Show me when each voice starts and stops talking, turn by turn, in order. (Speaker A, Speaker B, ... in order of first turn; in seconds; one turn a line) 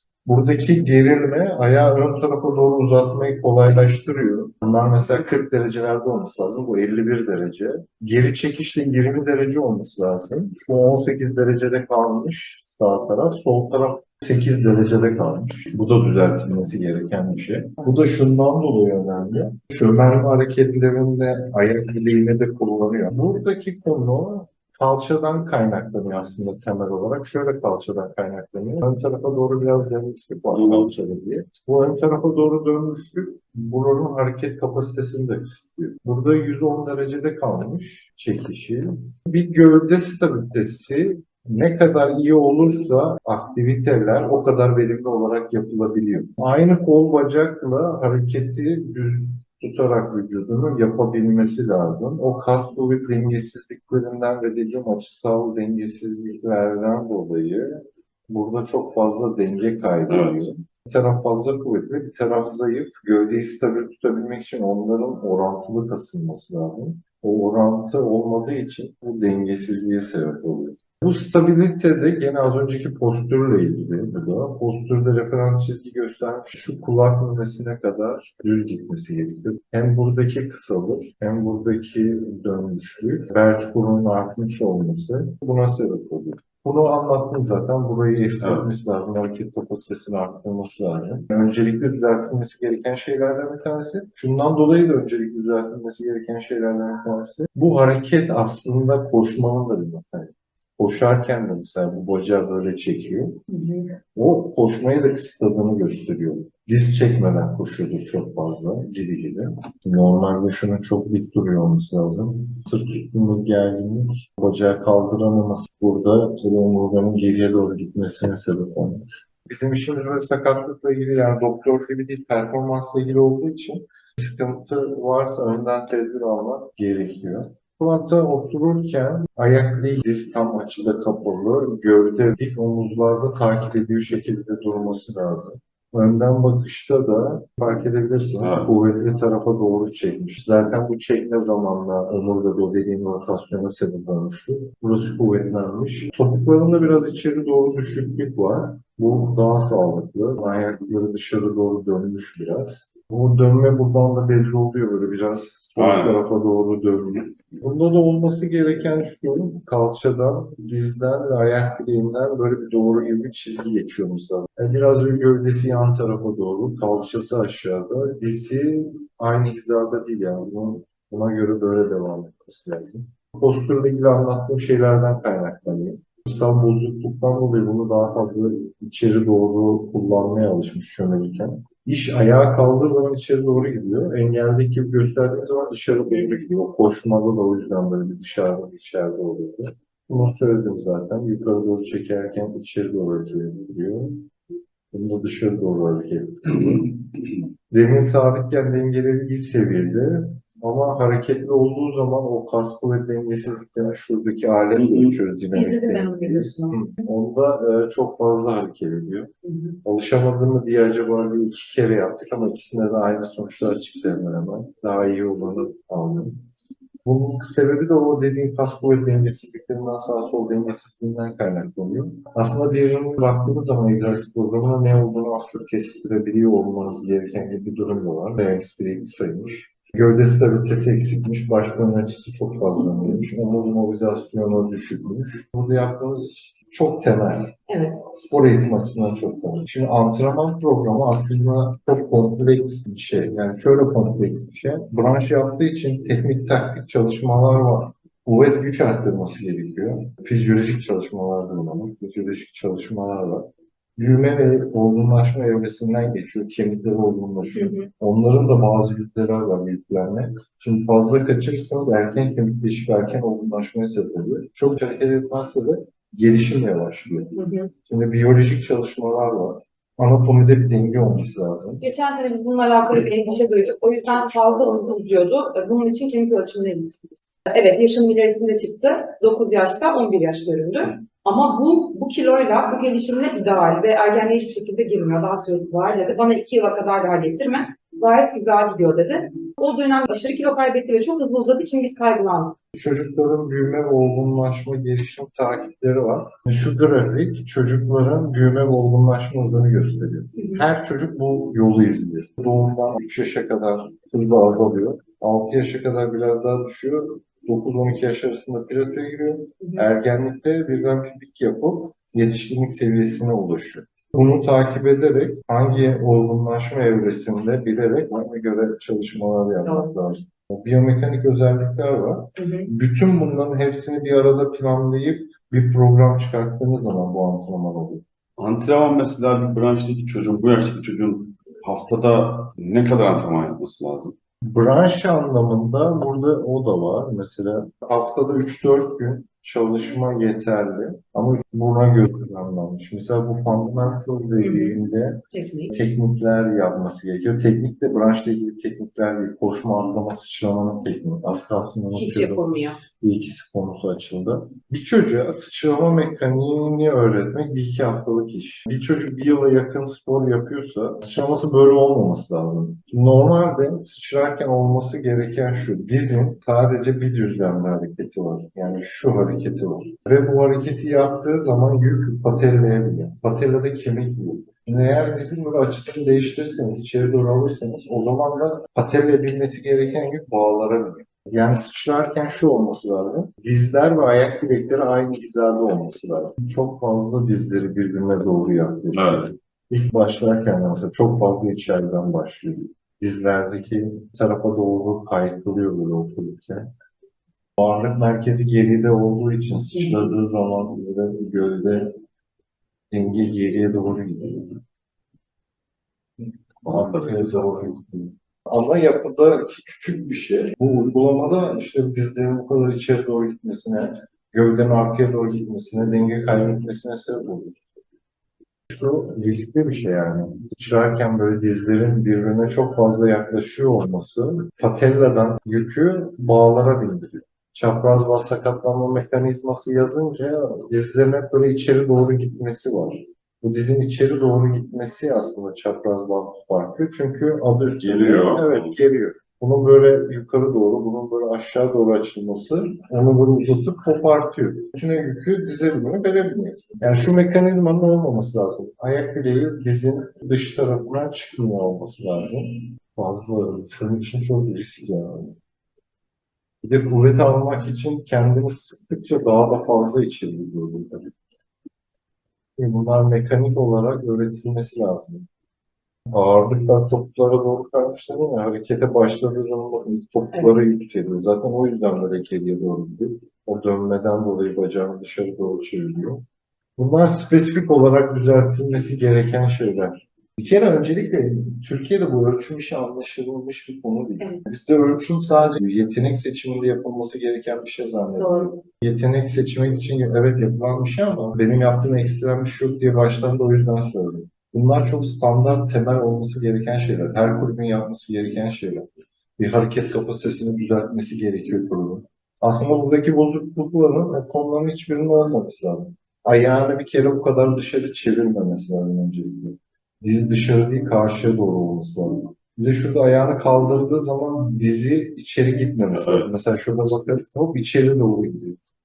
Speaker A: 0.2-194.3
Speaker B: 30.5-30.9
Speaker B: 60.1-60.5
Speaker B: 88.4-88.6
Speaker C: 103.5-103.8
Speaker B: 138.4-138.7
Speaker B: 155.8-156.2
Speaker A: 194.9-209.3
Speaker B: 204.8-205.2
Speaker C: 205.5-206.8
Speaker C: 209.5-209.8
Speaker A: 209.8-216.4
Speaker A: 217.0-271.8
Speaker C: 237.7-238.0
Speaker C: 257.6-257.9
Speaker C: 267.4-267.7
Speaker C: 271.8-292.5
Speaker A: 273.2-275.0
Speaker A: 292.7-328.0
Speaker C: 319.6-319.9
Speaker C: 322.4-322.7
Speaker B: 328.4-334.1
Speaker A: 334.4-352.5
Speaker C: 344.4-344.8
Speaker C: 345.3-345.7
Speaker C: 351.9-352.8
Speaker A: 353.0-396.7
Speaker B: 388.9-389.2
Speaker A: 397.6-401.9
Speaker A: 402.9-404.6
Speaker A: 406.2-417.6
Speaker A: 418.7-455.4
Speaker B: 437.8-438.8
Speaker A: 456.6-461.1
Speaker A: 462.6-465.3
Speaker A: 466.1-476.2
Speaker A: 476.8-518.6
Speaker C: 488.2-488.5